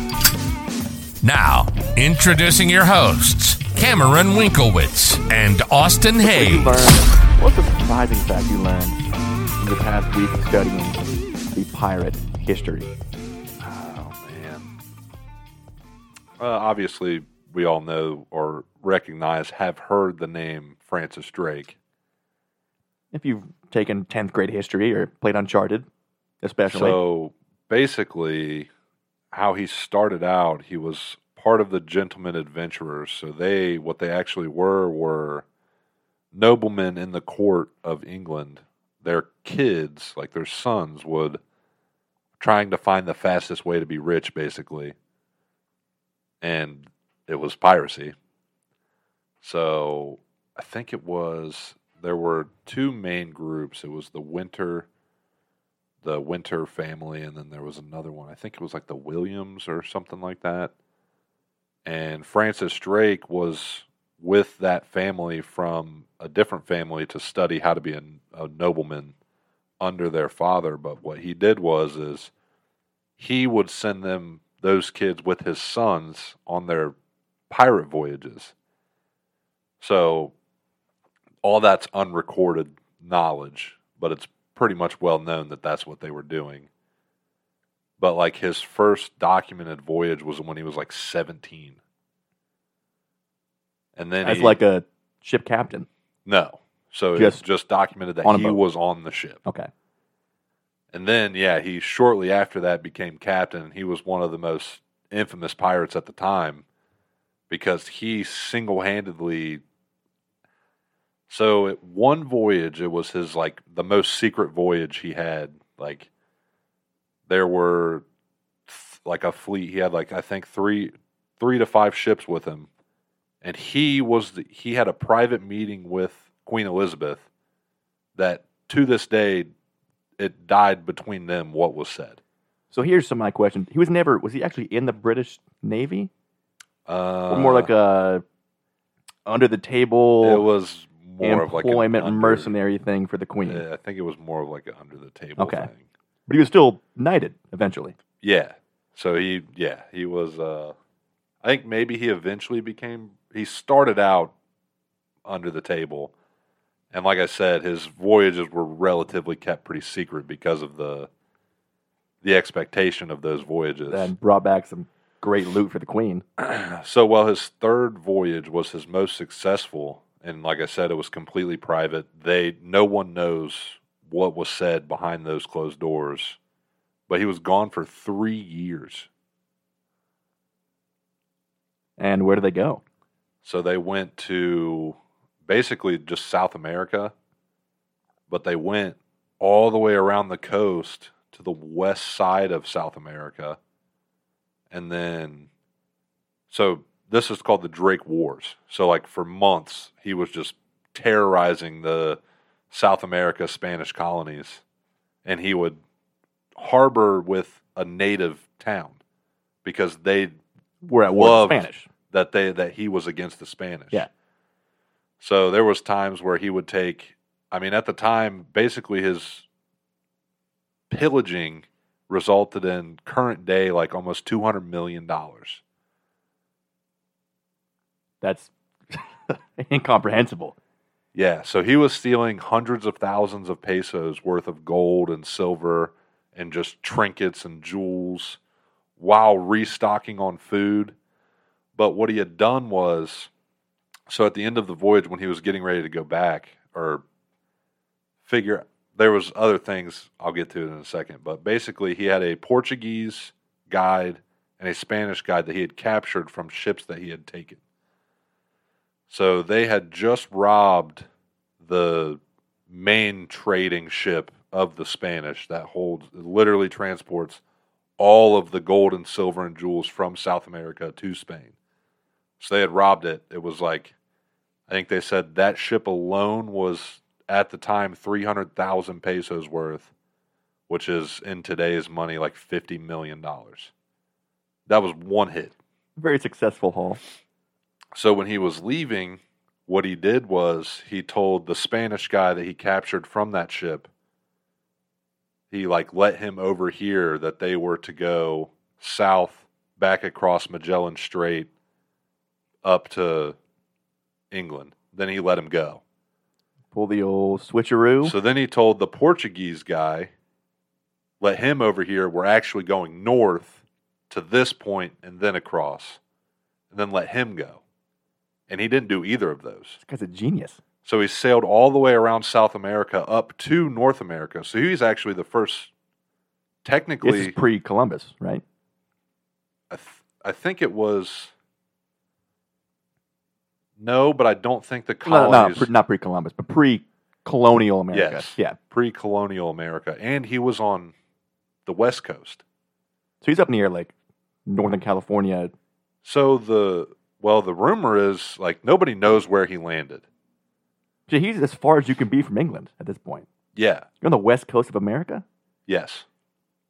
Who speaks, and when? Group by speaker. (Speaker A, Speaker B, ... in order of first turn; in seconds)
Speaker A: 1.2-7.0
Speaker B: 6.2-9.0, 9.6-12.9, 23.1-25.9, 26.4-27.0, 94.2-95.9, 97.2-97.4, 98.2-98.6, 132.7-136.1, 137.3-138.2, 139.3-140.4, 141.2-143.6, 145.4-145.7, 146.3-147.9, 163.9-166.2, 182.0-182.8, 210.8-211.9, 228.2-230.6, 286.0-287.0, 306.7-308.1, 319.8-320.6, 327.0-328.4, 335.1-338.6, 343.2-343.9, 344.5-345.5, 351.1-353.3, 354.0-355.2
Speaker C: 13.6-14.7, 16.4-21.8, 26.7-28.7, 29.3-35.5, 36.3-41.4, 42.4-45.0, 46.4-48.1, 49.4-54.9, 56.0-60.7, 61.9-69.1, 69.8-72.3, 73.2-76.9, 77.5-78.5, 79.8-80.3, 81.4-86.7, 88.0-91.8, 94.0-94.6, 96.2-99.4, 100.9-106.7, 107.5-109.6, 111.3-116.1, 117.3-118.0, 118.7-122.7, 123.4-127.2, 128.2-129.5, 130.2-132.2, 136.8-137.7, 140.2-142.5, 143.4-145.8, 148.2-150.8, 151.4-154.3, 155.2-156.1, 156.9-161.1, 162.2-164.1, 166.4-176.4, 177.1-179.1, 183.4-187.1, 188.3-193.6, 194.7-195.5, 196.5-202.2, 202.7-204.6, 205.2-205.8, 206.5-209.0, 209.6-210.4, 211.1-214.1, 215.2-219.4, 220.9-225.6, 231.1-238.4, 239.0-240.9, 241.8-243.3, 244.1-247.0, 248.2-257.6, 259.1-261.1, 261.6-267.4, 268.0-271.5, 272.4-273.9, 274.7-279.9, 280.7-283.7, 284.7-285.5, 287.9-293.9, 295.5-301.5, 302.6-303.4, 304.3-305.8, 308.0-310.1, 311.2-316.0, 316.7-317.6, 318.5-319.8, 320.8-325.7, 326.6-327.3, 329.7-331.3, 333.8-335.7, 337.9-340.9, 341.6-342.4, 346.0-350.1, 353.6-353.9, 355.7-356.1